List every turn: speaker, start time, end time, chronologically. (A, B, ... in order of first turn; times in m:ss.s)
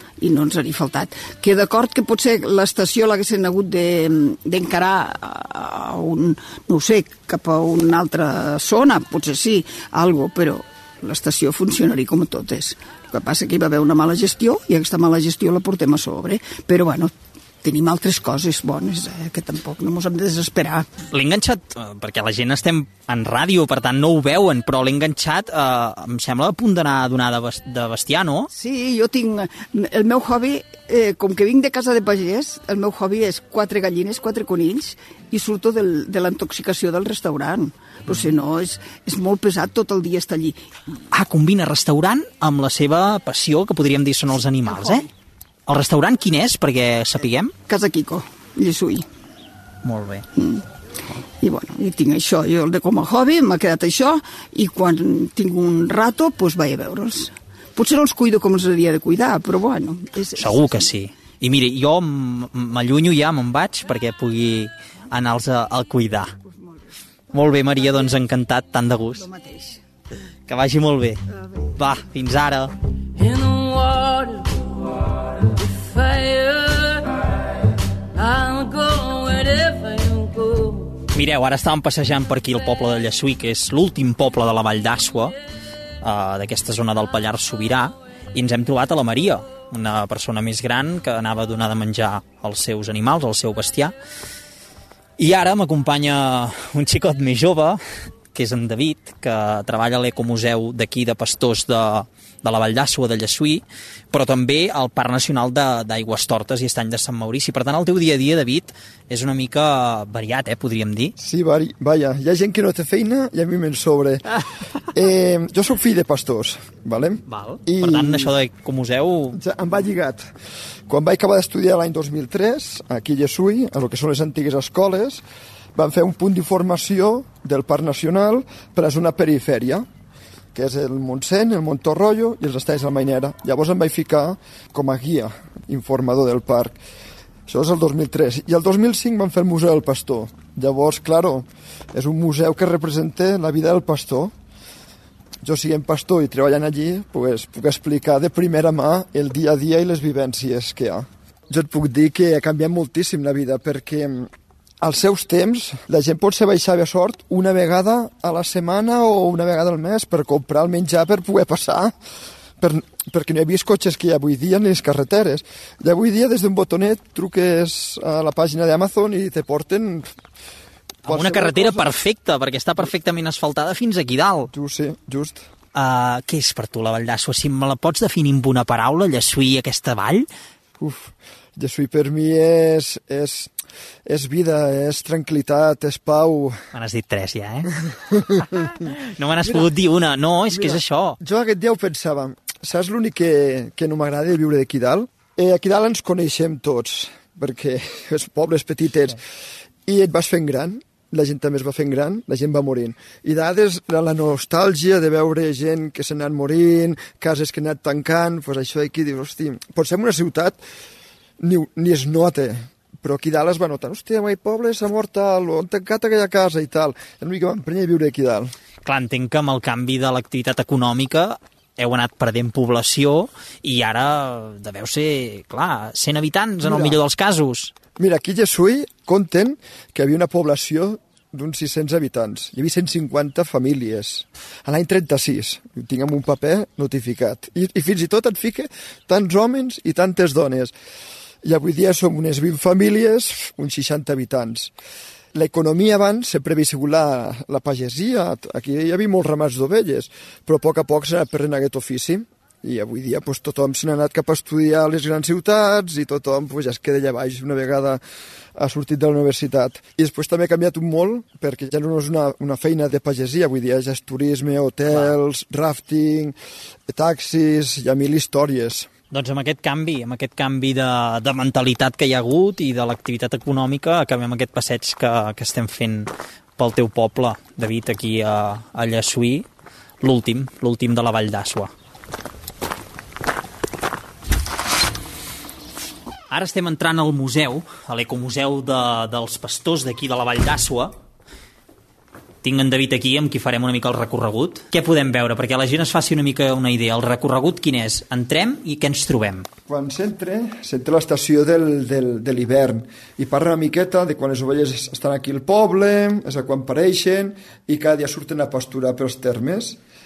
0:00.2-0:20.9 A
0:21.1-0:28.5 B
0:28.5-0:40.7 A
0:41.1-0:45.1 B
0:44.7-0:45.1 A
0:45.7-0:47.5 B
0:47.7-0:49.0 A
0:49.8-0:50.2 B
0:50.4-0:50.6 A
0:51.4-1:00.9 A
1:00.4-1:06.3 B
1:06.4-1:06.8 A
1:07.3-1:09.3 B
1:07.6-1:08.1 A
1:09.2-1:09.8 A
1:10.5-1:11.2 B
1:11.8-1:12.7 B
1:13.2-1:14.6 C
1:15.5-1:17.1 C
1:18.1-1:21.0 C
1:21.1-1:25.3 B
1:26.0-1:33.9 B
1:35.2-1:37.8 B
1:38.3-1:51.1 B
1:51.2-1:54.4 D
1:54.9-1:58.3 D
1:57.3-1:59.4 B
1:59.3-2:00.2 D
2:00.9-2:05.2 D
2:05.8-2:09.9 D
2:10.5-2:16.8 D
2:17.5-2:24.3 D
2:25.4-2:41.9 D
2:42.6-2:50.1 D
2:51.0-2:52.0 D
2:51.0-2:54.5 B
2:54.5-2:55.4 D
2:55.7-3:00.3 B
3:00.8-3:03.5 D
3:04.0-3:06.6 D
3:06.7-3:07.7 B
3:08.1-3:08.5 D
3:08.8-3:11.2 B
3:10.5-3:19.2 D
3:19.8-3:30.6 D
3:31.4-3:38.5 D
3:38.8-3:47.7 B
3:46.6-3:47.0 D
3:48.0-4:00.7 D
4:01.4-4:04.7 D
4:05.3-4:18.0 D
4:18.6-4:26.4 D
4:26.9-4:28.9 D
4:29.1-4:39.4 B
4:40.0-4:41.7 B
4:46.3-4:50.9 B
4:52.4-4:59.5 B
4:59.7-5:09.8 D